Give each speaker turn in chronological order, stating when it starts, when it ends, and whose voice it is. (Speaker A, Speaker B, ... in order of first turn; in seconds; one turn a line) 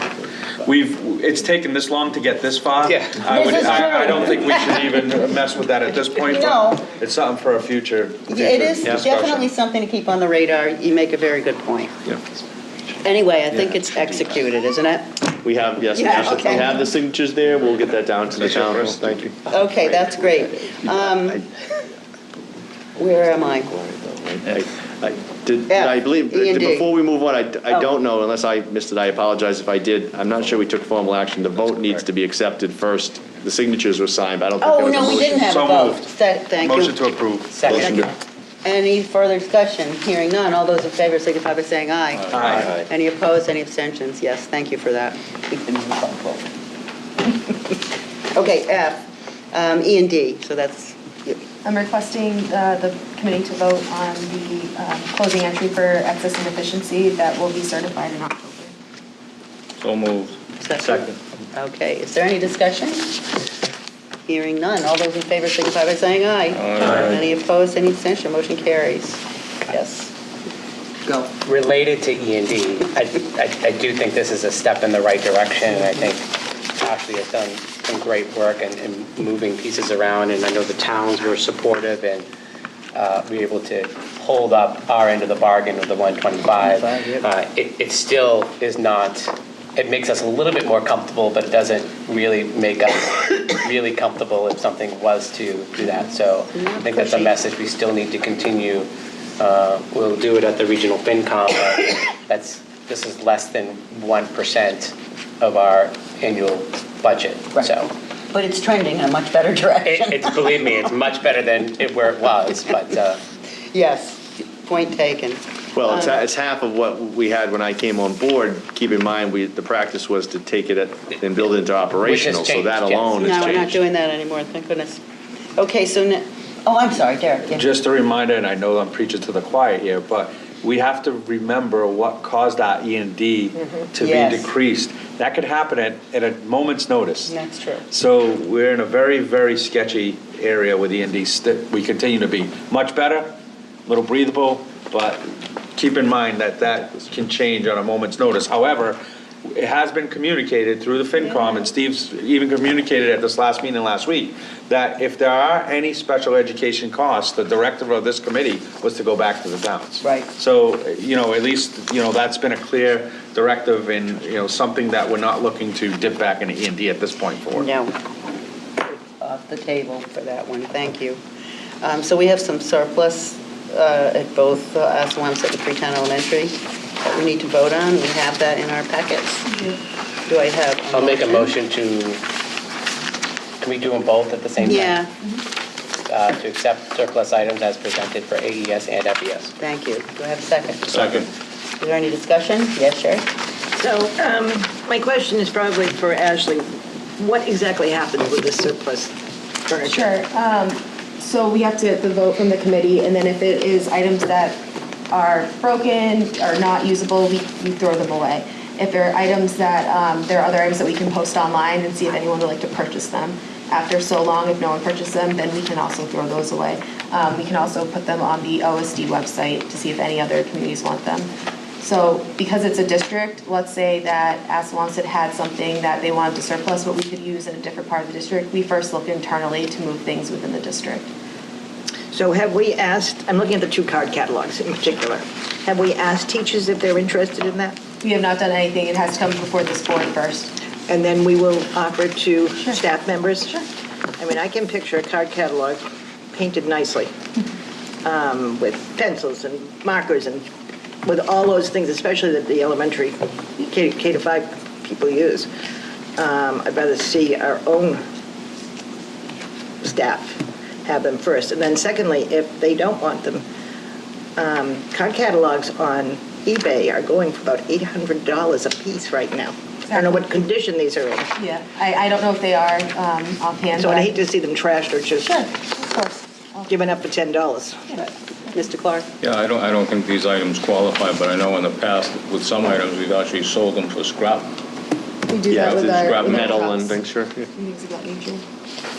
Speaker A: 0.6-9.5
Speaker B: 2.8-4.1
Speaker C: 3.2-5.1
Speaker C: 6.2-6.9
Speaker C: 8.3-11.9
Speaker C: 13.0-15.3
Speaker D: 15.4-20.2
Speaker C: 15.9-16.9
Speaker C: 19.5-21.4
Speaker C: 23.0-23.7
Speaker D: 23.8-35.5
Speaker C: 25.7-26.9
Speaker A: 31.8-32.0
Speaker C: 34.6-37.0
Speaker A: 35.3-38.0
Speaker B: 37.5-38.0
Speaker D: 37.7-38.1
Speaker C: 37.8-38.1
Speaker C: 38.6-46.4
Speaker E: 42.2-42.8
Speaker A: 42.3-42.7
Speaker C: 48.3-49.0
Speaker C: 49.5-51.4
Speaker F: 51.6-58.7
Speaker E: 59.8-61.2
Speaker C: 60.6-63.2
Speaker C: 64.3-70.1
Speaker E: 66.5-67.3
Speaker B: 71.4-82.3
Speaker B: 82.9-107.9
Speaker C: 86.6-87.2
Speaker C: 95.8-97.4
Speaker C: 108.3-110.7
Speaker B: 109.9-113.2
Speaker C: 113.7-116.2
Speaker D: 115.8-123.6
Speaker B: 122.0-123.8
Speaker C: 123.2-125.0
Speaker C: 125.6-127.7
Speaker A: 127.5-137.3
Speaker C: 134.0-134.5
Speaker C: 137.3-137.8
Speaker A: 137.9-143.3
Speaker A: 143.9-145.2
Speaker A: 145.8-149.0
Speaker A: 149.5-167.7
Speaker C: 160.0-160.3
Speaker C: 167.5-167.9
Speaker C: 168.9-171.2
Speaker C: 171.8-179.5
Speaker F: 179.5-179.8
Speaker C: 180.3-181.6
Speaker B: 180.9-182.2
Speaker B: 183.6-185.0
Speaker C: 184.6-185.1
Speaker B: 186.1-189.5
Speaker C: 189.6-191.2
Speaker E: 191.0-191.3
Speaker C: 191.8-193.3
Speaker G: 193.8-199.1
Speaker G: 199.7-200.1
Speaker F: 199.8-221.3
Speaker F: 221.8-231.1
Speaker G: 232.1-237.8
Speaker F: 238.0-240.5
Speaker G: 240.9-243.7
Speaker G: 244.2-247.1
Speaker G: 248.0-250.4
Speaker G: 251.1-255.5
Speaker G: 256.2-258.0
Speaker G: 259.8-263.4
Speaker G: 264.4-271.3
Speaker F: 269.9-270.4
Speaker F: 271.4-274.2
Speaker G: 273.8-275.4
Speaker F: 275.2-276.8
Speaker G: 276.7-277.9
Speaker F: 277.9-278.7
Speaker C: 278.5-279.1
Speaker E: 279.2-284.5
Speaker F: 285.3-287.0
Speaker D: 285.5-287.5
Speaker E: 286.0-286.4
Speaker F: 287.6-288.4